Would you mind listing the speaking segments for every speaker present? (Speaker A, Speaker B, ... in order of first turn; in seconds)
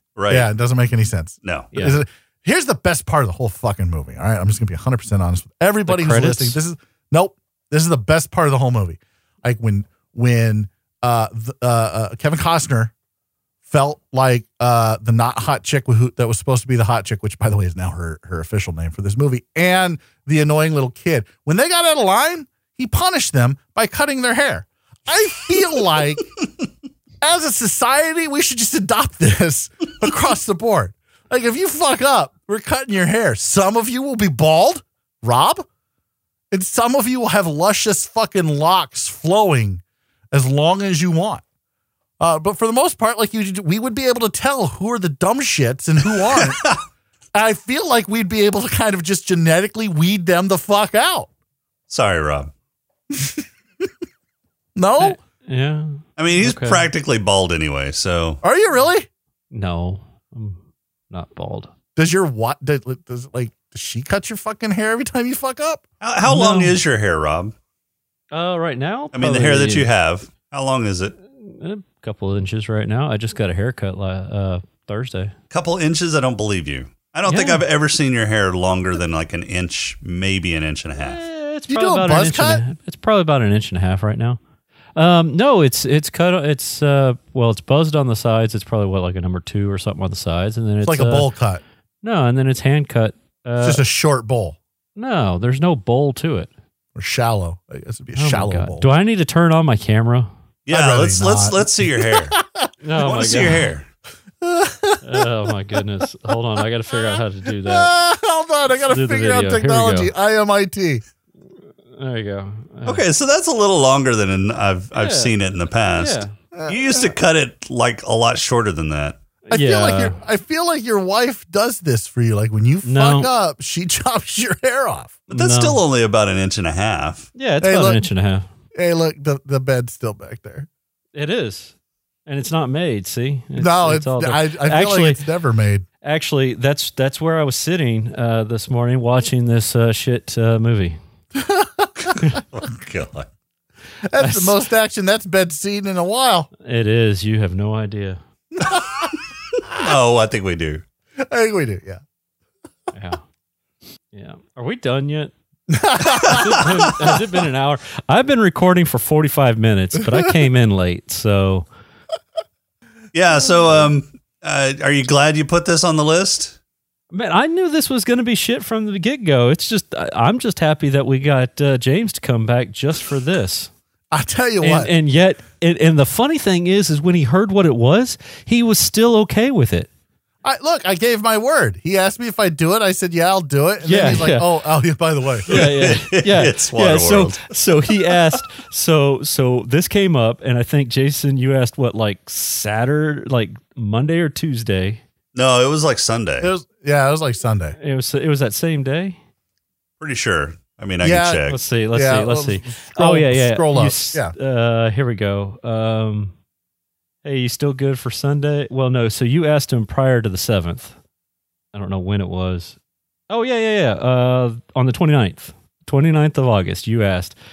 Speaker A: 0.1-0.5, 1.4-1.7, 51.9-52.5, 56.2-58.4, 66.0-67.5, 69.1-71.2, 75.5-81.2, 100.7-102.3, 103.0-103.9, 112.8-119.2, 125.3-127.3, 142.5-143.3, 149.7-150.8, 163.1-166.6, 185.5-188.1, 195.3-196.5, 200.0-201.6
Speaker B: 0.3-12.9, 13.7-26.2, 27.2-35.6, 36.5-41.4, 42.2-46.6, 47.3-51.3, 53.1-53.4, 54.8-55.2, 58.4-59.1, 62.0-65.8, 81.7-82.6, 90.8-91.6, 93.6-94.6, 97.0-98.9, 100.7-102.7, 104.4-106.3, 106.9-111.0, 116.5-117.1, 119.5-125.2, 127.6-128.1, 128.7-130.7, 133.6-135.8, 141.3-142.4, 144.1-146.5, 148.6-149.1, 151.2-152.0, 155.7-156.6, 174.1-174.9, 180.4-185.5, 196.4-197.8, 201.0-204.3
Speaker C: 1.7-2.0, 5.8-6.6, 55.0-56.9, 59.5-60.6, 61.1-61.7, 66.2-66.8, 68.3-69.9, 71.3-75.3, 77.3-77.6, 81.0-84.4, 85.0-91.3, 92.0-93.8, 95.0-96.5, 98.2-100.3, 102.8-103.7, 105.0-107.9, 108.8-110.1, 111.9-113.0, 114.9-115.3, 116.0-116.3, 119.5-120.2, 122.8-123.3, 125.3-125.8, 127.3-128.5, 131.1-131.7, 132.2-135.2, 136.0-141.0, 144.2-144.6, 146.6-148.2, 152.9-153.2, 154.1-155.3, 156.0-161.7, 167.1-173.7, 174.6-179.9, 183.8-184.5, 185.5-195.0, 197.8-199.2, 201.5-206.3, 207.2-210.9, 211.7-212.8, 213.3-217.3